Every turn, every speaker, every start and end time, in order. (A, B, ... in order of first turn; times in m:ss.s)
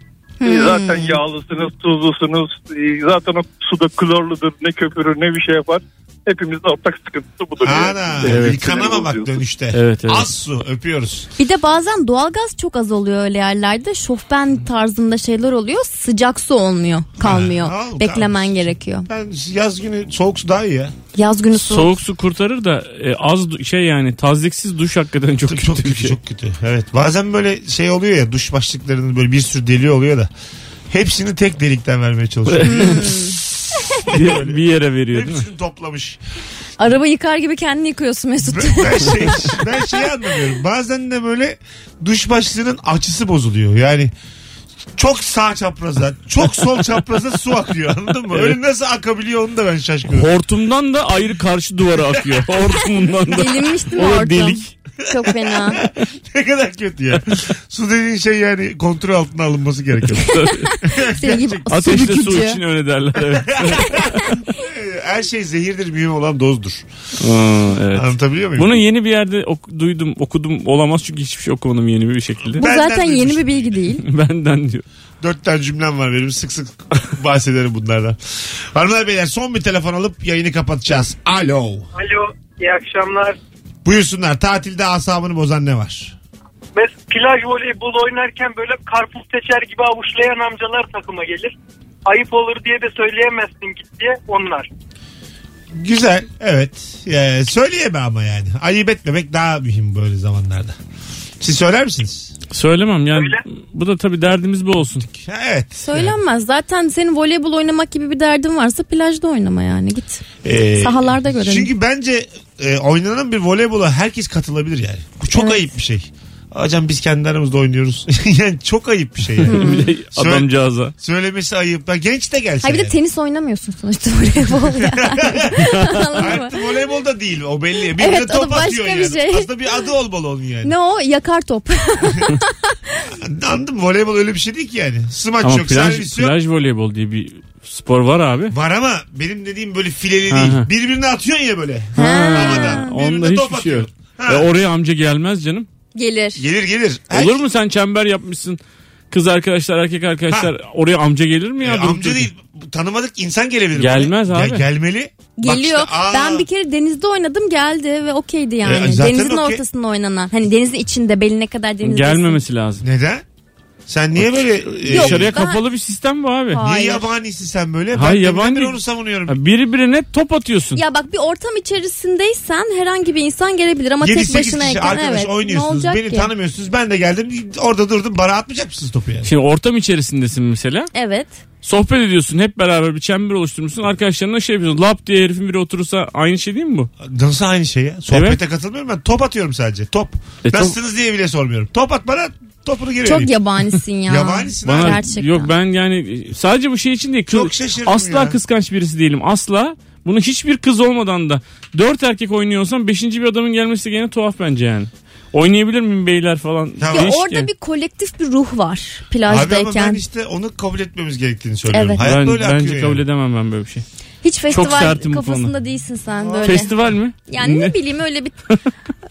0:00.4-0:01.2 A
0:00.4-0:09.4 B
0:07.6-0:11.3 C
0:08.2-0:08.7 D
0:09.7-0:10.3 D
0:11.4-0:19.1 A
0:17.2-0:20.9 C
0:21.1-0:21.9 A
0:21.6-0:26.1 D
0:25.5-0:30.3 C
0:30.9-0:33.3 C
0:32.5-0:33.2 D
0:32.8-0:33.3 A
0:34.0-0:36.2 C
0:34.0-0:35.4 D
0:36.8-0:39.6 A
0:38.4-0:44.1 C
0:45.0-0:50.3 C
0:48.3-0:48.6 D
0:50.1-0:54.7 D
0:53.3-0:55.8 A
0:55.1-1:01.7 C
1:00.2-1:00.7 D
1:00.7-1:02.6 A
1:01.7-1:04.2 D
1:03.3-1:06.9 C
1:07.2-1:12.6 D
1:07.9-1:08.8 C
1:12.5-1:13.8 C
1:12.6-1:14.0 A
1:14.0-1:14.8 D
1:15.2-1:21.9 C
1:21.9-1:23.4 E
1:23.8-1:26.2 C
1:26.7-1:31.5 E
1:32.0-1:34.7 E
1:35.7-1:40.8 C
1:41.4-1:42.3 C
1:42.5-1:45.0 D
1:43.1-1:43.4 E
1:45.1-1:46.2 C
1:45.8-1:50.2 A
1:50.4-2:02.9 C
1:50.8-1:51.7 A
1:59.4-2:00.9 D
1:59.4-1:59.9 A
2:02.6-2:06.6 A
2:04.8-2:10.7 C
2:05.7-2:06.1 D
2:08.0-2:09.5 A
2:10.6-2:12.8 A
2:13.1-2:16.3 C
2:15.4-2:18.5 D
2:18.5-2:24.5 C
2:20.3-2:20.7 D
2:21.9-2:22.9 A
2:22.0-2:25.7 D
2:25.9-2:26.4 A
2:26.4-2:27.4 C
2:27.1-2:28.6 D
2:29.1-2:32.3 D
2:31.6-2:36.5 C
2:33.8-2:34.6 D
2:35.4-2:42.4 A
2:38.6-2:39.6 C
2:41.8-2:42.8 D
2:42.8-2:43.2 C
2:43.9-2:45.4 C
2:44.2-2:46.6 D
2:44.9-2:45.6 A
2:46.5-2:47.1 A
2:46.6-2:49.4 C
2:47.9-2:50.8 D
2:50.7-2:56.3 A
2:54.0-2:59.3 C
2:59.2-3:00.9 D
3:00.9-3:01.4 A
3:01.6-3:06.9 D
3:07.0-3:13.3 C
3:08.1-3:08.4 D
3:10.4-3:10.7 D
3:13.0-3:15.5 A
3:14.0-3:15.0 C
3:14.6-3:27.5 D
3:17.3-3:18.4 C
3:26.8-3:27.1 C
3:26.9-3:30.0 A
3:29.2-3:33.0 C
3:31.7-3:32.0 A
3:32.0-3:33.8 D
3:34.2-3:36.7 A
3:34.5-3:35.5 D
3:36.2-3:36.7 C
3:36.4-3:37.7 D
3:37.3-3:38.4 A